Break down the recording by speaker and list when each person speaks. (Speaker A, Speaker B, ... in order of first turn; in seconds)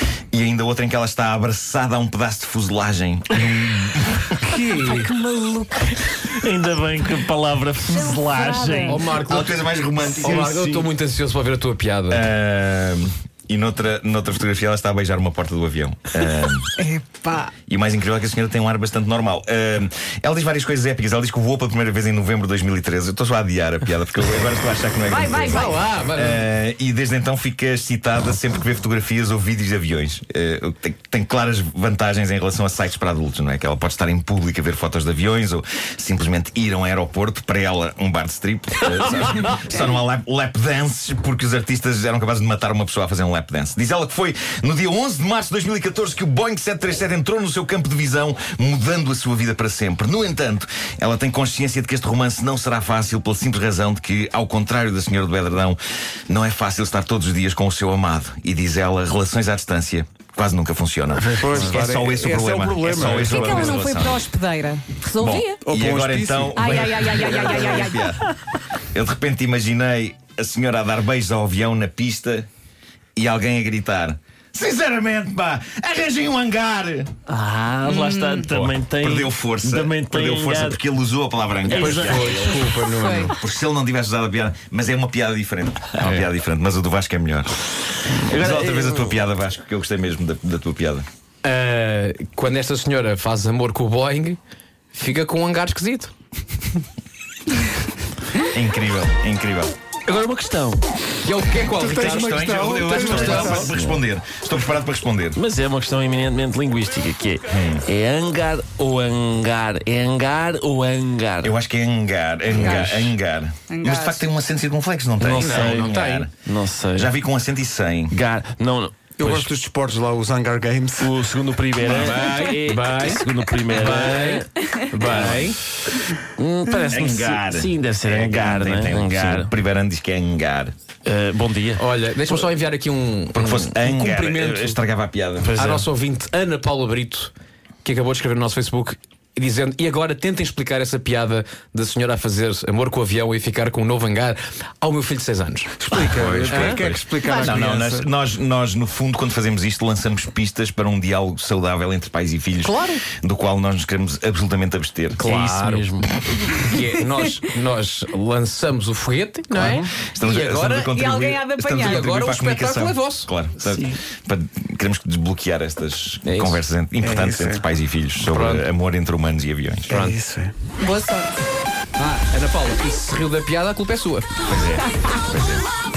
Speaker A: 0.3-4.4, 9.2-10.9, 12.1-16.8, 17.7-64.3, 65.2-68.2, 68.9-72.5, 73.2-77.1, 78.5-82.4, 83.2-87.6, 88.3-91.0, 98.5-99.7, 101.9-105.4, 107.5-107.8, 111.4-118.2, 126.9-130.7, 133.3-135.6, 145.9-155.2, 159.6-170.0, 174.5-175.7
Speaker B: 4.5-5.1, 8.8-12.2, 25.5-26.5, 81.7-83.3, 86.0-86.3, 91.4-94.4, 94.9-96.1, 101.2-103.7, 115.4-116.3, 121.8-125.6, 131.8-134.8, 135.6-137.3, 137.8-147.5, 155.2-155.9, 156.4-161.0, 161.7-163.3, 166.2-166.6, 168.2-168.7, 169.9-170.2, 172.0-174.5
Speaker C: 4.5-4.8, 61.4-63.9, 65.6-67.8, 101.7-103.7, 119.2-121.2, 145.8-148.1, 167.0-167.6, 169.9-170.5
Speaker D: 4.8-6.0, 7.9-9.1, 16.8-17.5, 25.1-25.6, 63.1-65.6, 66.5-68.2, 77.9-78.5, 82.8-83.3, 112.5-113.1, 113.7-114.2, 160.9-162.0, 170.8-171.3
Speaker E: 6.2-9.0, 61.2-61.8, 77.3-80.8, 81.6-82.7, 88.1-89.2, 100.0-100.8, 103.6-104.1, 105.3-111.5, 115.2-117.1, 118.1-119.5, 121.0-125.6, 126.4-129.5, 131.1-131.8, 135.4-135.9, 146.5-146.8, 155.2-156.2